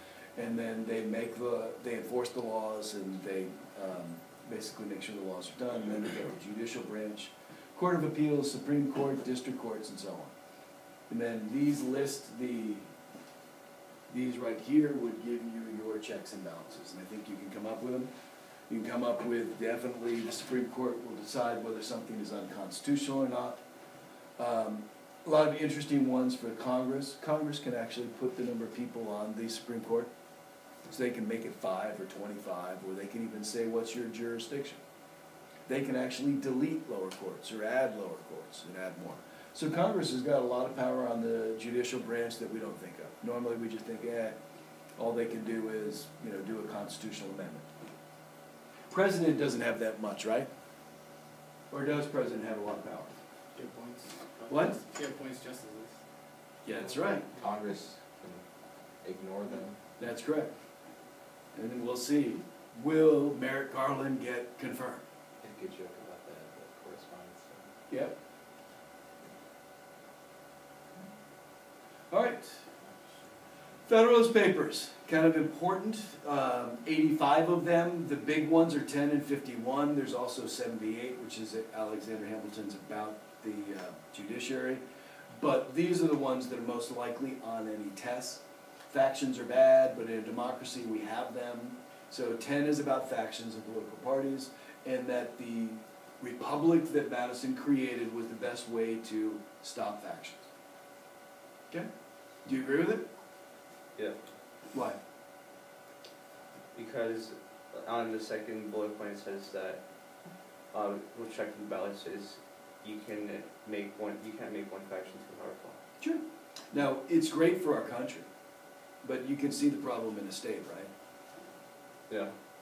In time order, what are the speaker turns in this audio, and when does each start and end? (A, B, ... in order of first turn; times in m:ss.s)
0:00.4-0:10.3 A
0:11.1-0:12.9 A
0:14.1-0:18.1 A
0:18.7-0:23.6 A
0:24.4-0:30.1 A
0:30.9-0:34.8 A
0:35.7-0:44.4 A
0:45.0-0:47.7 A
0:48.9-0:50.5 A
0:51.7-0:53.1 A
0:53.6-0:56.0 B
0:54.5-0:54.8 A
0:56.6-0:57.3 A
0:57.4-0:58.4 C
0:59.0-0:59.8 C
1:00.0-1:00.5 A
1:01.6-1:05.0 A
1:05.4-1:07.7 C
1:07.9-1:08.2 A
1:12.1-1:12.6 A
1:13.9-1:24.8 A
1:25.4-1:40.5 A
1:42.4-1:43.1 A
1:44.7-1:45.0 A
1:46.7-1:49.8 D
1:50.7-1:55.8 D
1:56.0-1:58.3 A
1:59.0-2:00.9 A
2:02.1-2:02.4 D